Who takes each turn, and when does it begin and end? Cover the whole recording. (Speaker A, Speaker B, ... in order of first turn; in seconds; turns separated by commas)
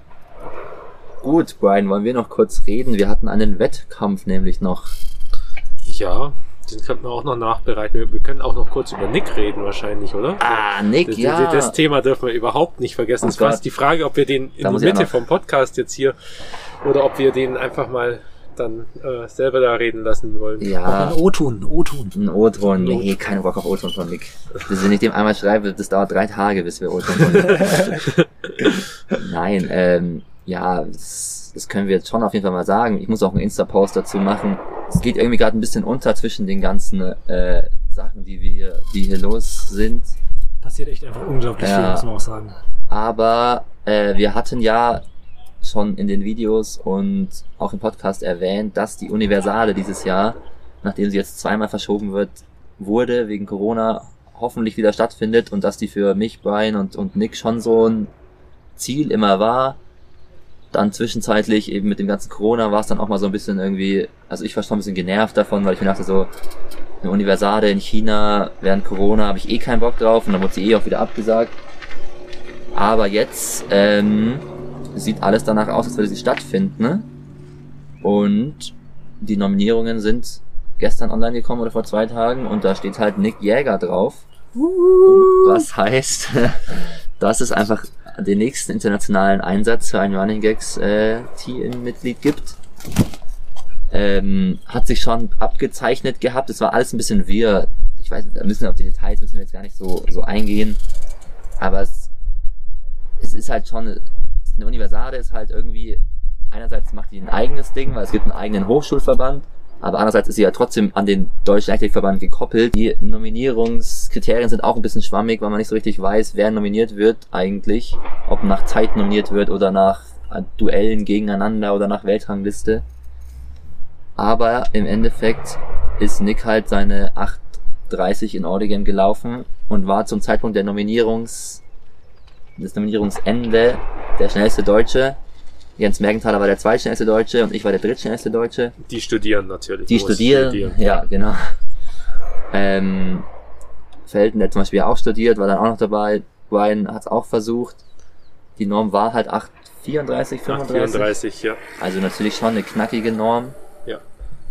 Speaker A: 1.2-5.0, Speaker B: 5.9-16.2, Speaker A: 10.4-11.8, Speaker A: 13.2-13.6, Speaker A: 14.6-15.1, Speaker B: 16.8-20.7, Speaker A: 20.6-21.2, Speaker C: 20.9-22.2, Speaker A: 22.1-28.1, Speaker C: 22.8-23.2, Speaker A: 29.1-40.2, Speaker C: 40.6-42.6, Speaker A: 41.6-42.1, Speaker A: 42.9-45.0, Speaker A: 45.6-58.1, Speaker A: 58.8-59.8, Speaker A: 60.7-66.3, Speaker A: 67.0-71.6, Speaker A: 72.7-77.1, Speaker A: 78.0-84.3, Speaker A: 85.0-92.6, Speaker A: 93.9-100.8, Speaker A: 101.6-102.1, Speaker A: 103.2-122.8, Speaker A: 124.2-131.6, Speaker A: 132.6-135.2, Speaker A: 135.8-138.8, Speaker B: 138.8-141.0, Speaker A: 139.9-141.6, Speaker A: 142.5-143.3, Speaker A: 144.1-147.8, Speaker A: 148.6-151.1, Speaker B: 150.5-151.6, Speaker A: 151.8-153.6